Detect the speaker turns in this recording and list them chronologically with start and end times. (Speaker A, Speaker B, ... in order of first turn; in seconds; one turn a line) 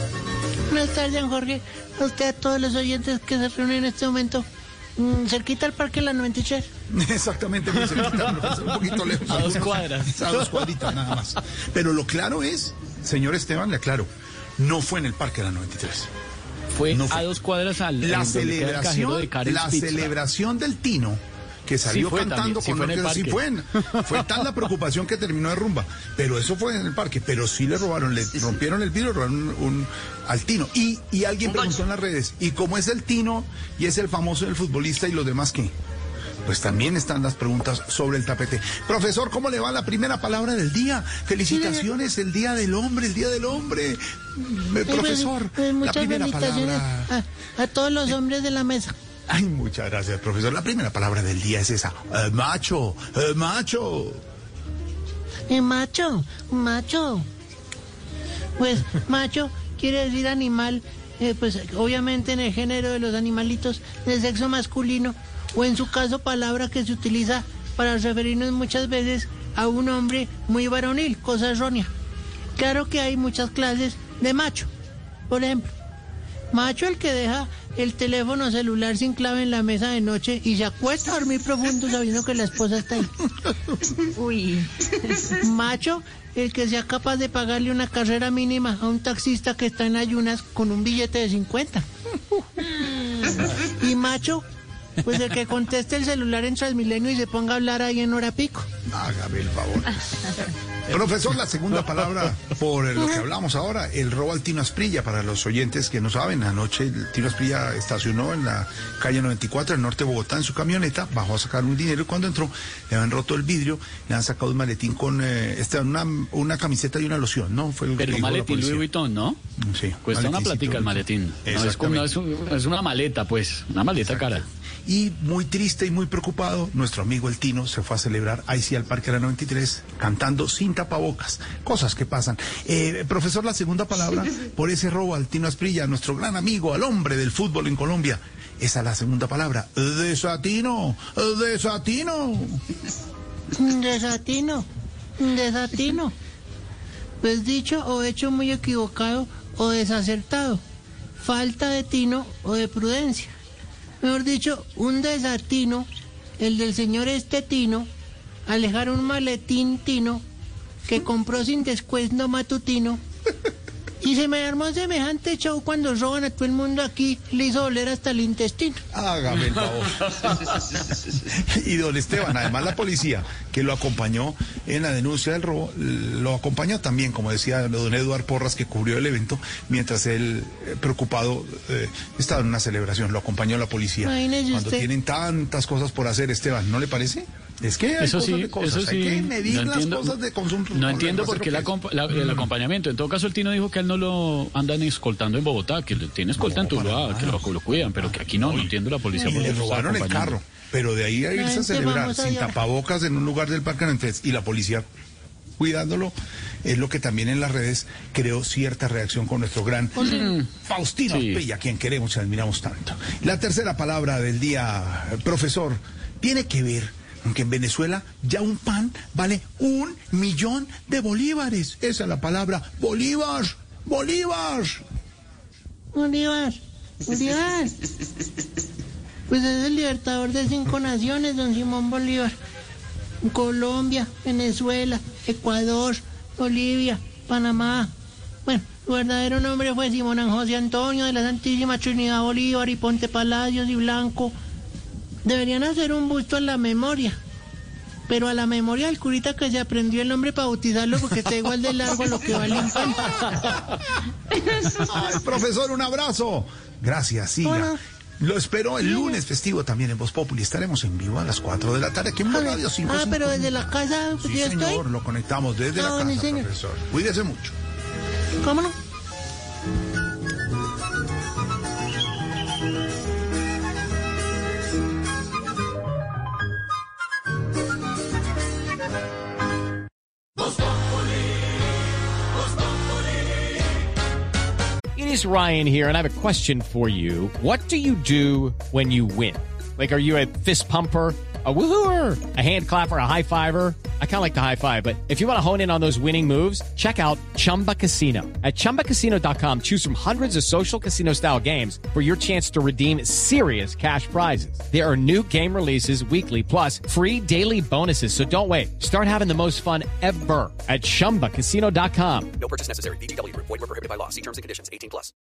Speaker A: 0.7-4.5
Speaker A: 5.0-6.7
Speaker B: 6.9-16.1
Speaker C: 9.1-11.0
Speaker C: 16.7-20.1
Speaker B: 16.9-17.3
Speaker B: 18.0-35.7
Speaker C: 21.9-24.3
Speaker B: 36.5-47.1
Speaker A: 41.5-41.8
Speaker A: 44.9-49.0
Speaker B: 49.3-54.2
Speaker A: 55.5-57.2
Speaker A: 58.6-71.9
Speaker A: 72.6-74.7
Speaker A: 75.3-75.7
Speaker A: 76.5-83.2
Speaker A: 85.4-91.8
Speaker A: 92.6-94.4
Speaker A: 95.0-98.7
Speaker B: 98.9-118.8
Speaker C: 118.0-119.4
Speaker B: 119.6-122.1
Speaker C: 120.0-124.4
Speaker B: 124.0-142.6
Speaker A: 143.6-146.1
Speaker A: 147.2-150.6
Speaker A: 151.2-153.3
Speaker A: 154.0-157.9
Speaker A: 158.5-160.2
Speaker A: 160.8-163.0
Speaker A: 164.0-168.8
Speaker B: 168.9-191.7
Speaker A: 184.0-184.9
Speaker C: 188.0-190.2
Speaker C: 190.7-200.4
Speaker B: 196.3-197.5
Speaker B: 198.0-204.8
Speaker A: 201.3-202.6
Speaker B: 205.6-224.8
Speaker A: 210.0-210.4
Speaker C: 210.2-210.5
Speaker C: 211.1-211.4
Speaker A: 225.9-227.8
Speaker A: 229.3-232.3
Speaker A: 233.2-237.9
Speaker A: 238.5-244.3
Speaker A: 245.2-247.2
Speaker A: 248.1-253.3
Speaker B: 254.7-263.6
Speaker A: 257.4-257.8
Speaker A: 262.3-264.8
Speaker B: 264.2-267.5
Speaker A: 265.8-266.5
Speaker A: 268.4-268.8
Speaker D: 284.9-312.3
Speaker E: 312.4-315.1